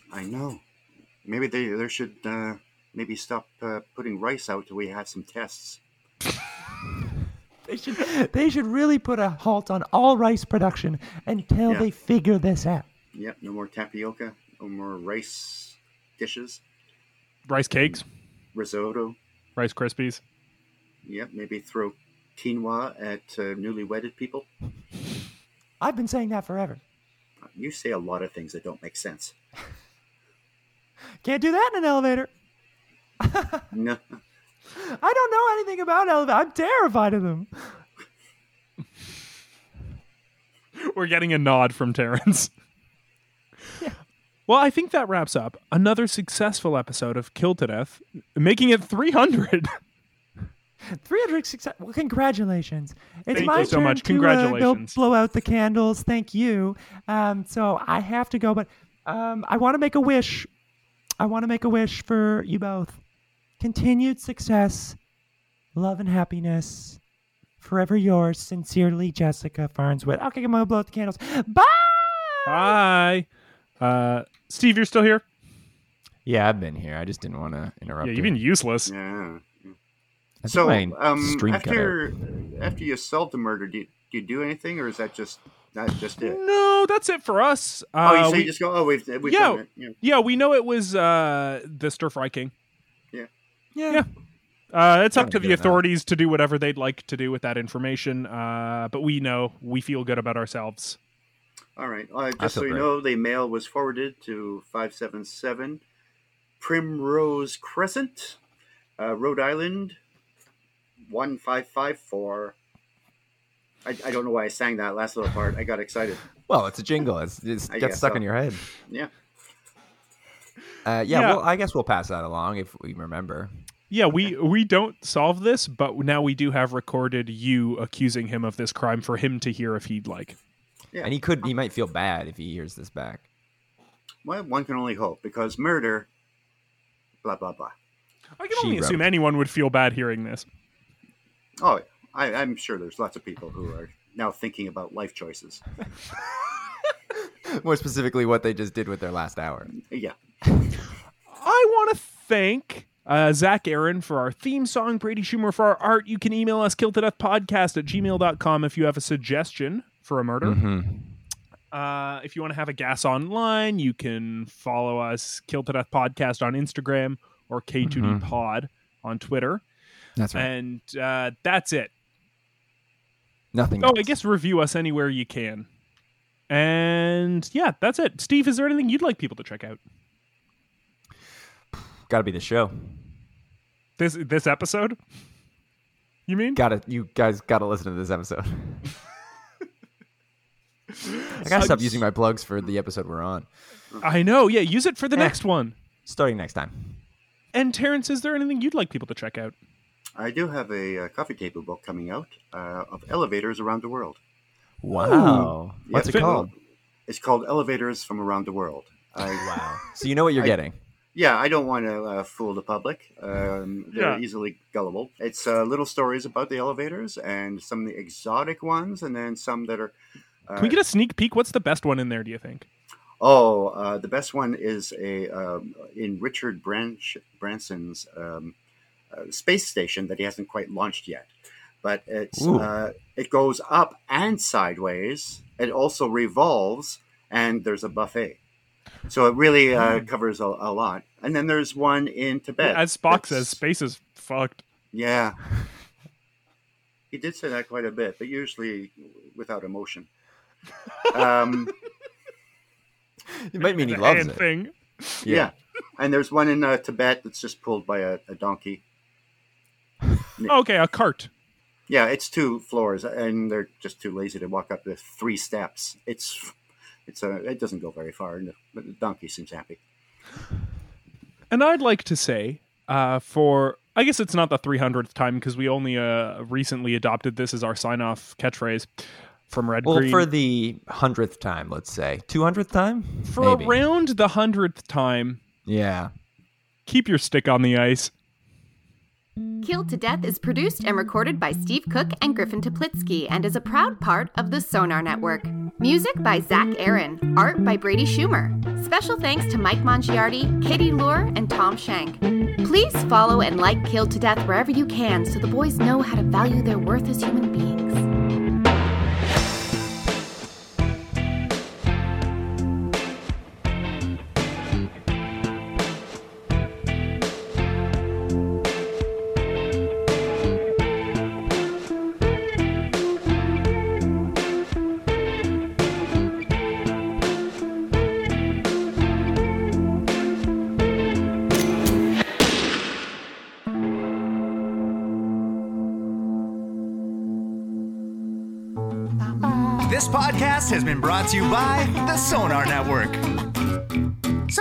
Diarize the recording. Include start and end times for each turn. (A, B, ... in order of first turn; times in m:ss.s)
0:00.1-0:00.6 A
0:01.2-0:05.8 A
0:07.7-0:12.9 B
0:13.1-0:16.6 A
0:17.5-0:18.0 C
0:18.5-0:19.2 A
0:19.6-0:20.2 C
0:21.0-0:24.5 A
0:25.8-0:26.8 B
0:27.5-0:29.3 A
0:31.2-0:32.3 B
0:33.2-0:33.6 B
0:33.7-0:34.0 A
0:34.8-0:37.5 B
0:40.8-0:42.5 C
0:44.5-0:49.8 C
0:50.9-1:00.5 B
0:53.3-0:55.0 C
0:53.4-0:53.7 A
1:01.2-1:03.0 B
1:03.6-1:05.0 B
1:05.8-1:07.0 B
1:07.6-1:12.7 B
1:12.5-1:13.3 C
1:13.8-1:15.2 C
1:16.2-1:18.3 D
1:18.0-1:18.9 C
1:18.9-1:19.8 A
1:20.4-1:22.0 D
1:20.5-1:26.4 A
1:26.2-1:28.5 C
1:28.0-1:30.0 A
1:29.2-1:32.5 C
1:33.8-1:34.0 B
1:34.7-1:41.0 C
1:35.1-1:35.8 D
1:41.8-1:45.8 A
1:42.4-1:42.9 D
1:46.6-1:48.4 A
1:49.0-1:50.0 A
1:51.1-1:52.6 A
1:53.8-1:56.2 A
1:56.5-1:58.6 D
1:57.7-1:59.1 A
2:00.8-2:03.5 D
2:01.1-2:01.4 C
2:03.9-2:10.4 C
2:11.0-2:13.2 D
2:14.2-2:16.1 A
2:17.2-2:17.7 A
2:18.4-2:20.5 C
2:18.5-2:19.1 D
2:21.6-2:25.6 A
2:27.5-2:29.8 D
2:29.8-2:30.2 A
2:31.3-2:40.6 C
2:40.4-2:41.1 D
2:41.7-2:49.6 C
2:47.8-2:48.3 D
2:50.2-2:50.5 D
2:50.3-2:51.9 C
2:53.5-2:54.1 D
2:53.8-2:55.7 C
2:56.5-2:59.8 C
3:01.7-3:02.9 D
3:04.0-3:05.0 C
3:06.3-3:06.6 C
3:06.6-3:08.8 D
3:11.3-3:11.8 C
3:11.4-3:12.0 B
3:11.4-3:13.5 D
3:14.0-3:15.8 C
3:16.1-3:17.0 D
3:17.5-3:19.6 C
3:20.2-3:24.2 A
3:24.8-3:26.5 D
3:25.0-3:25.5 B
3:25.9-3:26.5 A
3:26.0-3:26.3 C
3:27.1-3:29.5 A
3:29.2-3:30.8 D
3:31.1-3:40.0 A
3:33.9-3:34.2 C
3:40.5-3:40.8 A
3:40.6-3:42.7 C
3:43.2-3:48.5 A
3:49.1-3:51.3 A
3:51.8-3:58.4 A
3:52.4-3:52.7 D
3:59.1-4:03.6 A
4:02.6-4:04.6 C
4:04.9-4:05.4 A
4:07.1-4:10.1 A
4:11.0-4:11.7 A
4:13.3-4:14.4 D
4:13.6-4:15.3 C
4:15.2-4:15.5 D
4:15.3-4:18.8 A
4:20.5-4:21.3 C
4:21.9-4:26.5 A
4:27.1-4:29.8 A
4:31.5-4:40.3 C
4:39.8-4:43.8 D
4:43.3-4:45.4 C
4:45.7-4:46.1 D
4:46.9-4:48.1 C
4:49.6-5:08.0 E
5:39.8-5:43.2 F